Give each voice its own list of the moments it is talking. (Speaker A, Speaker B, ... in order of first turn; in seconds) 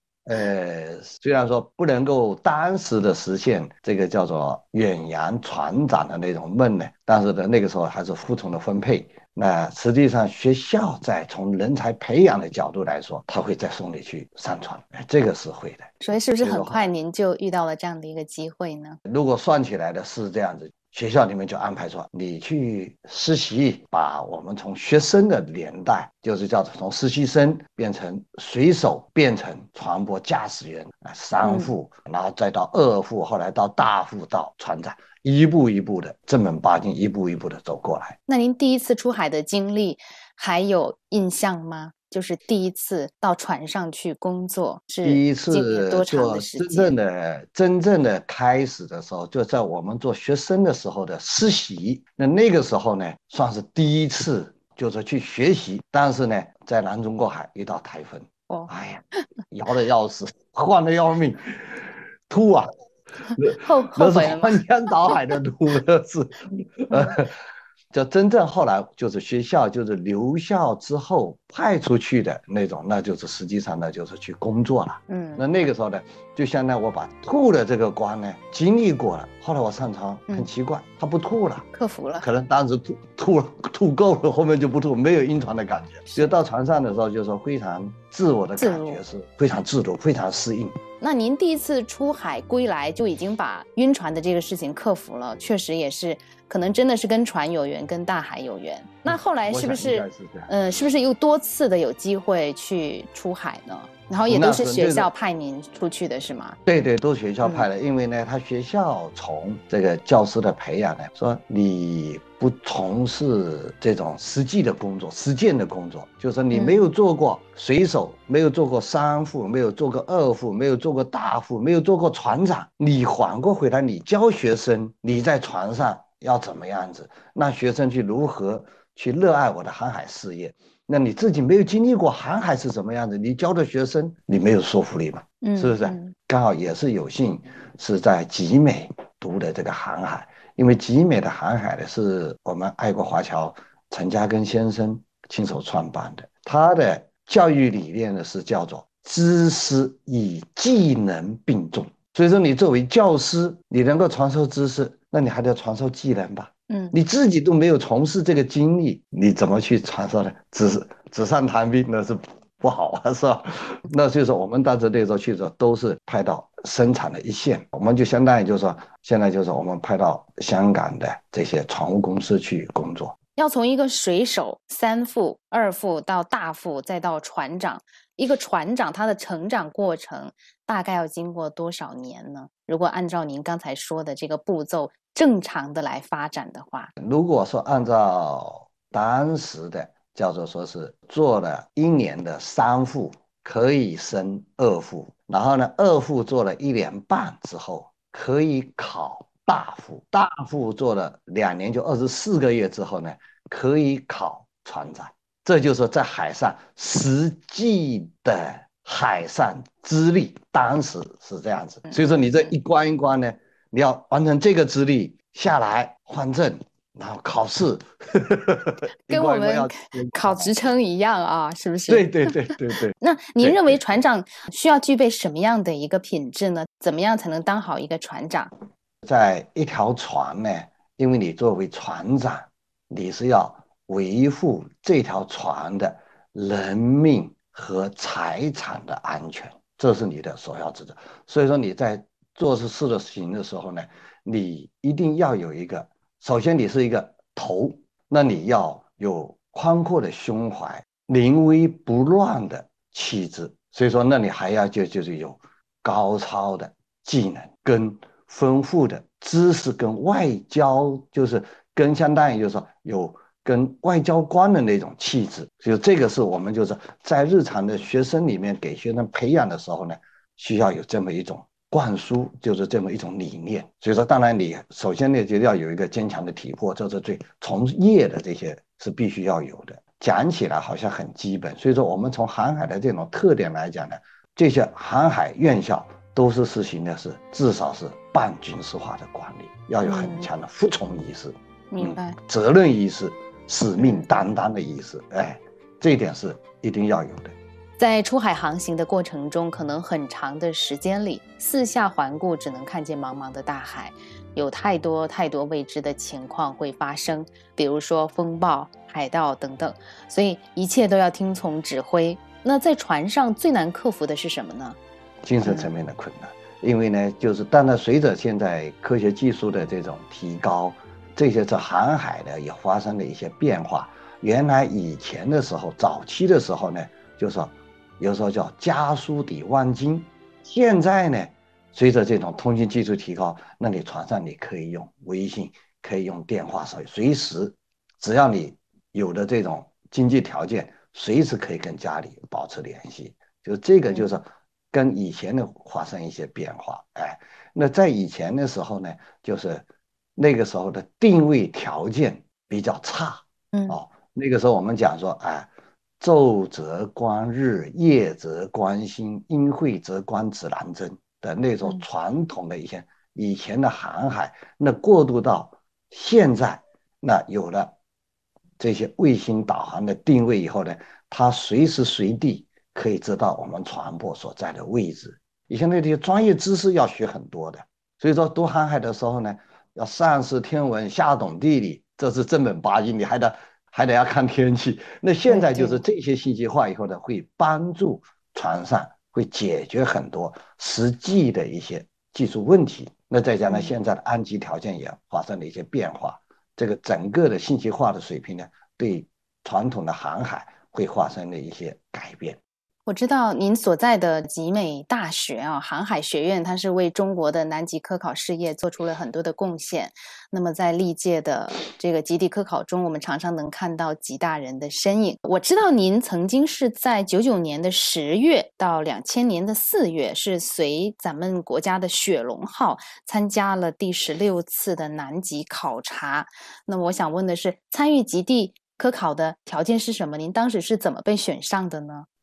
Speaker A: 0.2-16.9, 19.1-38.1, 45.0-62.7, 63.4-67.4, 67.9-81.7, 82.2-90.8, 99.1-100.5, 104.3-105.1, 106.7-173.1, 187.0-220.6, 221.9-223.9, 229.0-297.4, 315.2-349.6, 350.1-355.5, 356.0-367.7, 368.6-402.4
Speaker B: 16.0-19.0, 31.4-31.7, 38.3-46.9, 63.3-65.2, 66.9-67.2, 75.1-75.4, 81.7-82.2, 88.6-89.0, 91.0-106.6, 107.4-107.7, 116.5-116.9, 135.4-136.1, 156.7-156.9, 173.4-186.9, 211.9-212.2, 219.1-228.5, 289.8-290.3, 291.7-292.2, 293.8-294.1, 297.8-314.8, 315.4-315.7, 353.5-353.8, 385.3-385.8, 402.9-432.1